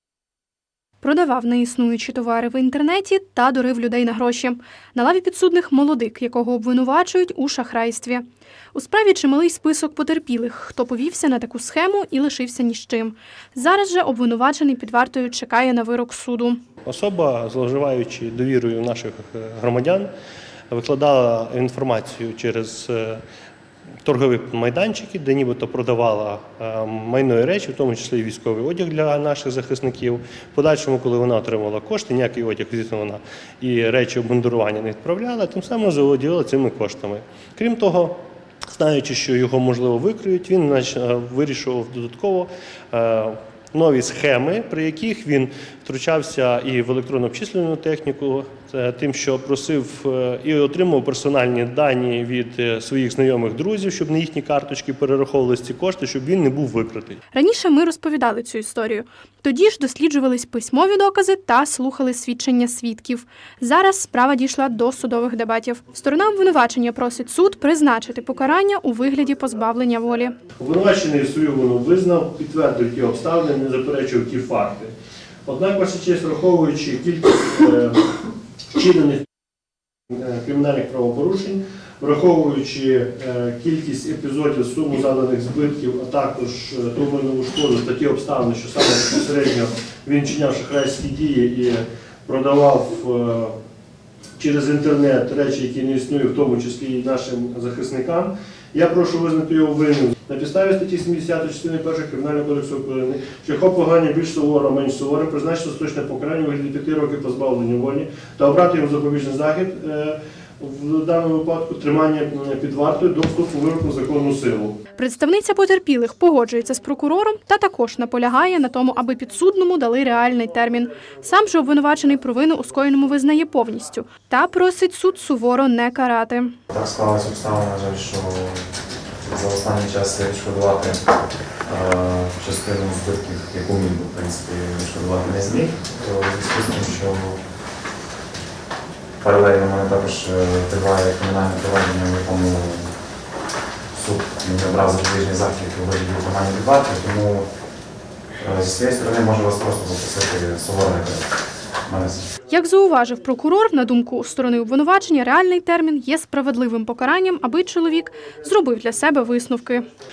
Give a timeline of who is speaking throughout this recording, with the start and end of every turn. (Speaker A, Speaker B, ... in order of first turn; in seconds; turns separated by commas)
Speaker A: 1.0-16.6, Speaker B: 16.8-20.1, Speaker B: 20.7-23.2, Speaker B: 24.0-57.2, Speaker A: 57.3-70.3, Speaker B: 70.6-74.9, Speaker B: 75.5-78.2, Speaker B: 78.7-79.2, Speaker B: 80.1-93.5, Speaker B: 94.4-114.8, Speaker A: 114.9-126.5, Speaker C: 126.7-128.7, Speaker C: 129.2-131.1, Speaker C: 131.6-137.4, Speaker C: 139.2-142.9, Speaker C: 143.9-147.5, Speaker C: 148.4-151.3, Speaker C: 151.8-152.3, Speaker A: 152.5-159.9